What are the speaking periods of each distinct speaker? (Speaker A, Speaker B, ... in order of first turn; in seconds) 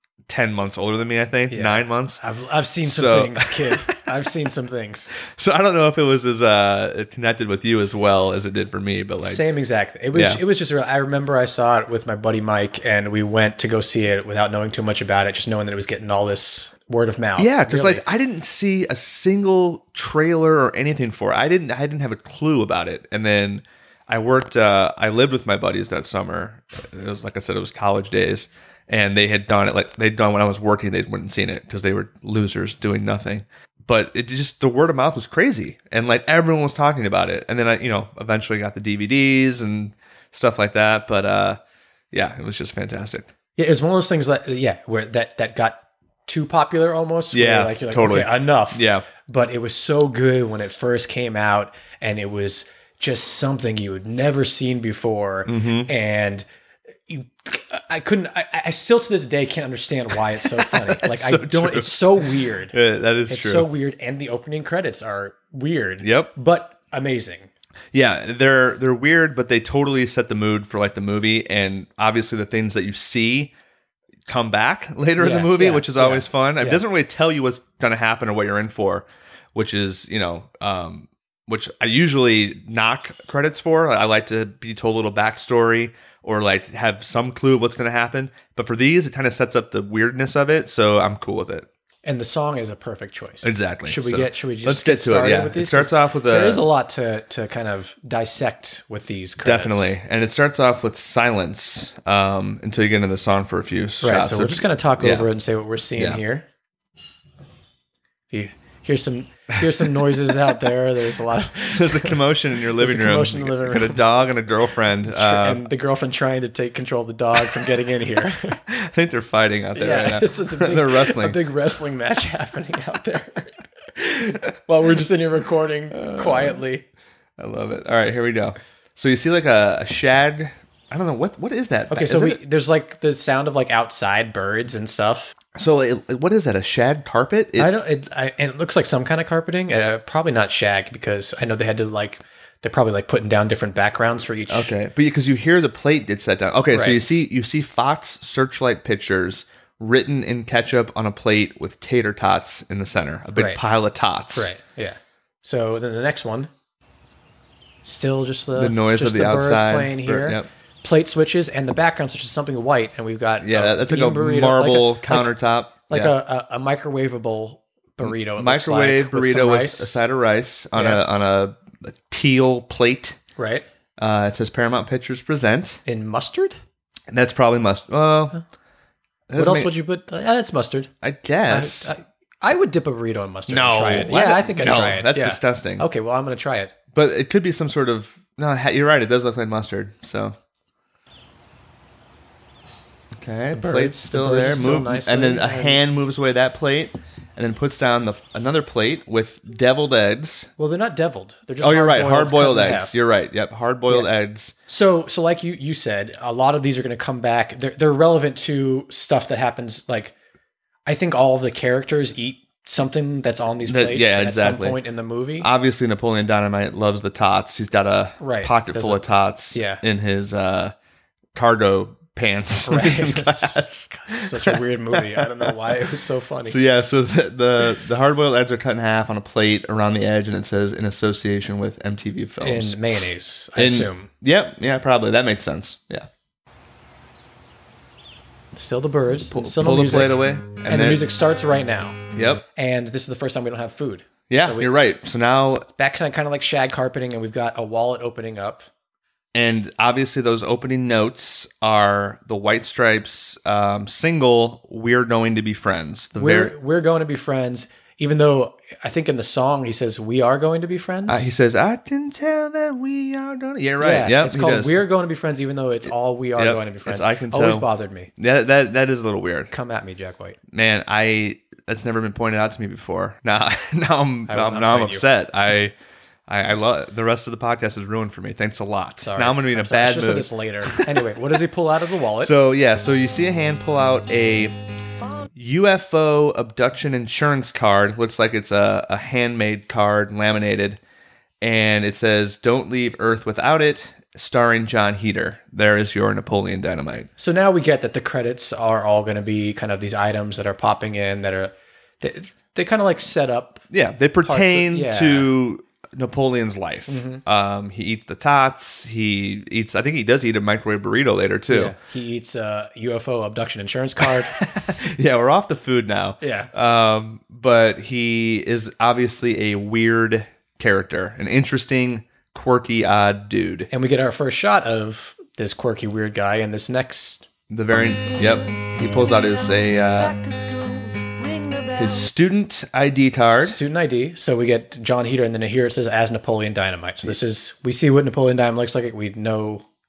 Speaker A: 0.3-2.2, 2.8-4.0, 5.3-9.4, 10.1-10.4, 17.4-41.6, 42.1-43.3, 47.3-49.0, 55.5-55.9, 60.6-63.7, 66.0-66.3, 67.9-73.5, 74.3-91.7, 93.4-96.6, 99.4-105.3, 111.7-115.6, 118.7-121.4, 125.9-126.6, 127.4-132.4, 135.5-137.7, 144.5-154.5, 158.5-160.5, 163.4-166.1, 168.0-173.2, 174.0-175.8, 177.1-178.4, 179.3-179.7, 181.0-181.9, 183.5-185.8, 186.9-190.3, 193.1-200.5, 201.6-204.5, 213.6-214.8, 215.4-220.7, 221.3-225.2, 226.5-232.8, 233.6-236.1, 239.3-241.1, 242.2-242.4, 244.3-245.7, 249.3-256.5, 261.1-264.8, 266.4-269.5, 270.5-275.7, 276.3-280.9, 282.2-284.5, 285.4-290.8, 291.4-297.1, 303.7-311.7, 314.3-323.7, 327.5-330.1, 331.8-333.6
Speaker B: 1.5-5.1, 9.2-18.0, 43.6-56.5, 57.1-62.7, 63.3-67.5, 75.2-76.8, 92.0-100.0, 104.0-106.4, 108.3-112.2, 112.7-114.0, 115.0-118.6, 119.7-126.8, 131.9-135.3, 137.6-144.7, 146.7-147.0, 153.3-153.6, 154.3-156.5, 157.8-170.0, 170.7-171.0, 173.3-173.7, 175.8-176.6, 179.3-180.9, 181.4-186.8, 193.5-195.8, 200.6-202.9, 204.7-210.1, 210.8-215.5, 218.2-219.8, 222.6-226.6, 232.4-234.1, 238.5-242.0, 242.5-244.7, 245.7-248.7, 256.1-261.3, 263.8-268.1, 269.5-270.4, 274.3-275.0, 279.0-282.3, 297.2-303.7, 304.2-305.3, 306.9-307.2, 311.5-314.3, 316.2-316.5, 323.7-327.3, 333.4-339.6
Speaker C: 327.7-332.1